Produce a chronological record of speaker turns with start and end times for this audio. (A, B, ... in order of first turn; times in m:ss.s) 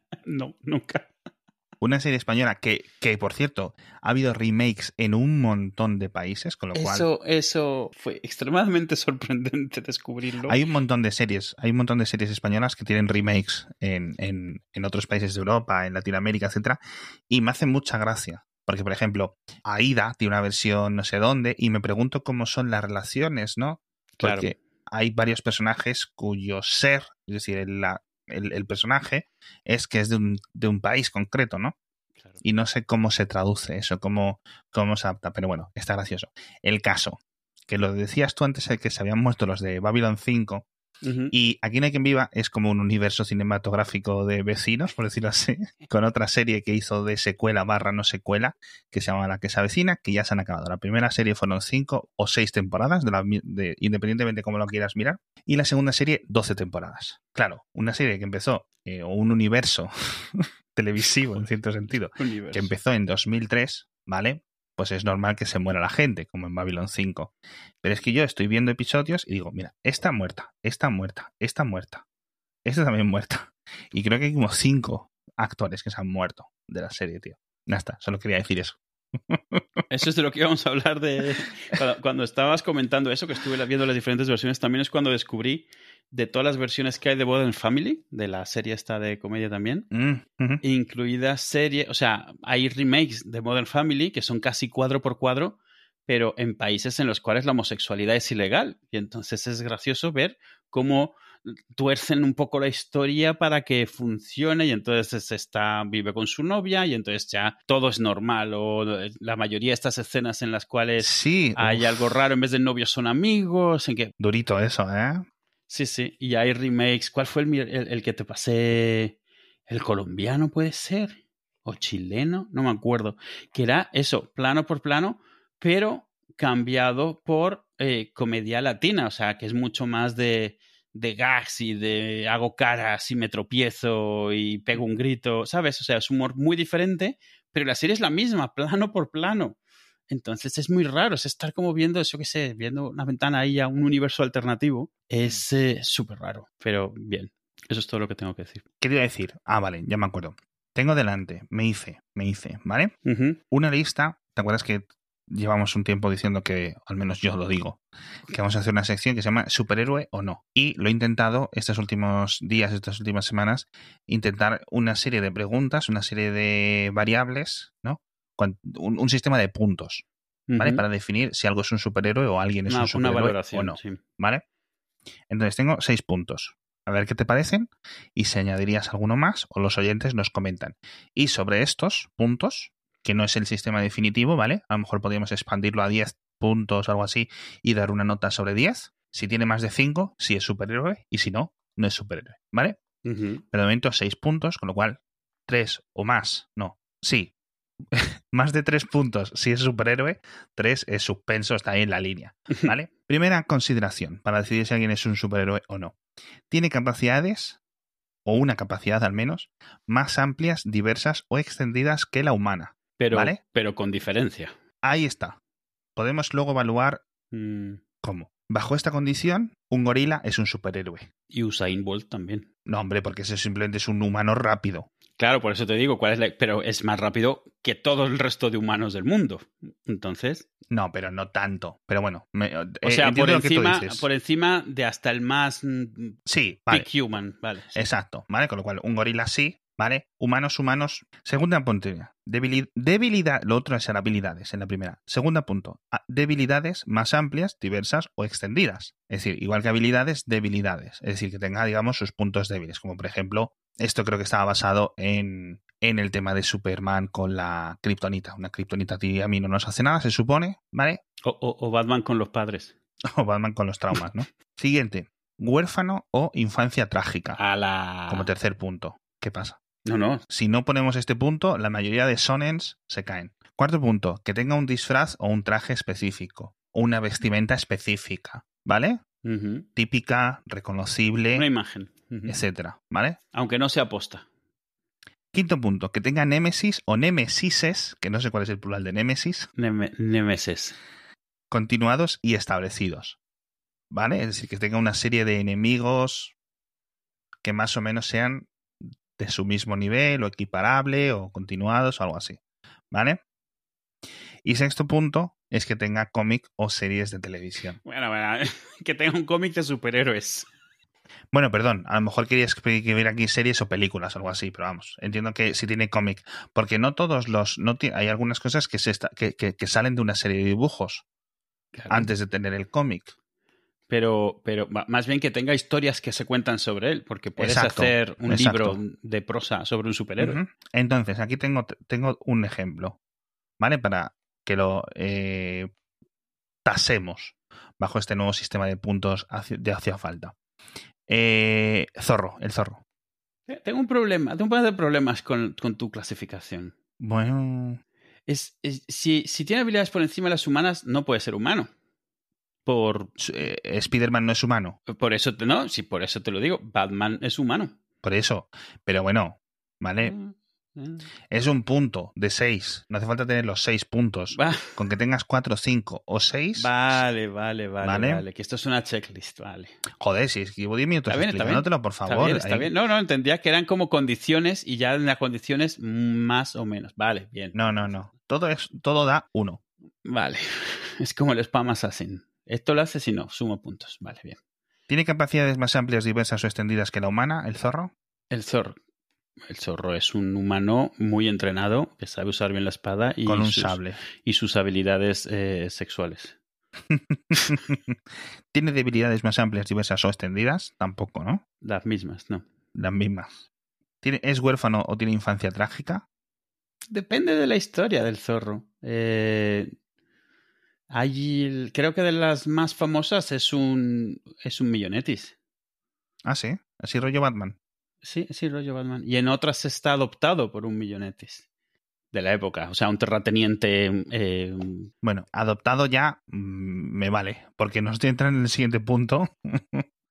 0:00.2-0:01.1 A
0:01.8-0:07.1 B
0:06.7-0:10.6 A
0:10.4-0:31.7 B
0:24.2-0:24.5 A
0:32.4-0:40.6 B
0:41.0-0:41.3 A
0:41.3-1:07.3 B
1:02.2-1:02.7 A
1:07.8-1:12.0 B
1:12.6-1:18.8 B
1:19.3-1:19.6 B
1:19.9-1:29.9 A
1:29.9-1:30.6 B
1:30.6-1:54.1 A
1:51.0-1:52.2 B
1:54.2-1:55.2 B
1:55.7-1:59.2 A
1:59.7-2:19.6 A
2:20.1-2:28.6 A
2:28.8-2:32.9 B
2:33.0-2:33.4 A
2:33.5-2:50.0 B
2:50.5-2:50.8 A
2:50.6-2:54.4 B
2:52.7-2:54.0 A
2:55.3-3:12.8 B
3:13.0-3:13.4 A
3:13.5-3:17.3 B
3:17.9-3:26.0 B
3:26.5-3:27.6 B
3:28.2-3:33.4 B
3:33.0-3:34.5 A
3:34.8-3:35.4 B
3:36.0-3:37.0 B
3:37.3-3:37.8 A
3:38.0-3:41.1 B
3:41.3-3:42.5 A
3:42.6-3:44.9 B
3:45.2-3:50.5 A
3:50.7-3:54.1 B
3:52.8-3:56.2 A
3:56.2-3:56.9 B
3:56.7-3:57.8 A
3:57.7-4:21.0 B
4:21.2-4:22.7 A
4:23.1-4:27.4 B
4:27.4-4:28.3 A
4:28.1-4:29.6 B
4:29.8-4:30.2 A
4:30.3-4:39.0 B
4:39.2-4:39.7 A
4:39.8-4:41.5 B
4:41.3-4:42.4 A
4:42.3-4:43.2 B
4:43.3-4:44.2 A
4:45.3-4:49.5 B
4:49.6-4:50.8 A
4:51.5-4:53.2 B
4:53.9-4:56.3 B
4:57.4-4:58.5 B
4:59.2-5:02.4 B
5:02.9-5:03.2 B
5:04.4-5:07.8 B
5:07.8-5:10.5 A
5:11.3-5:21.0 B
5:21.7-5:22.1 A
5:21.9-5:23.1 B
5:23.9-5:30.4 A
5:27.4-5:28.8 B
5:30.2-5:33.0 B
5:33.6-5:35.7 B
5:36.6-5:40.3 B
5:41.1-5:42.8 B
5:43.5-5:46.7 A
5:47.0-5:47.8 B
5:48.3-5:51.7 A
5:52.6-5:53.2 A
5:53.2-5:54.8 B
5:54.9-5:57.8 A
5:58.0-6:00.1 B
6:00.0-6:01.1 A
6:01.3-6:06.7 B
6:04.3-6:04.8 A
6:06.6-6:09.7 A
6:07.8-6:08.2 B
6:10.0-6:12.7 B
6:11.1-6:18.0 A
6:17.5-6:19.6 B
6:20.0-6:24.4 A
6:24.9-6:27.9 B
6:28.3-6:28.8 A
6:29.5-6:36.3 A
6:33.2-6:34.0 B
6:36.9-6:38.0 B
6:38.5-6:41.4 B
6:41.6-6:42.4 A
6:42.7-6:43.4 B
6:44.0-6:46.0 B
6:46.9-6:49.7 A
6:50.9-6:55.3 A
6:56.2-6:57.6 B
6:58.0-7:01.4 A
7:02.1-7:04.9 A
7:05.0-7:09.8 B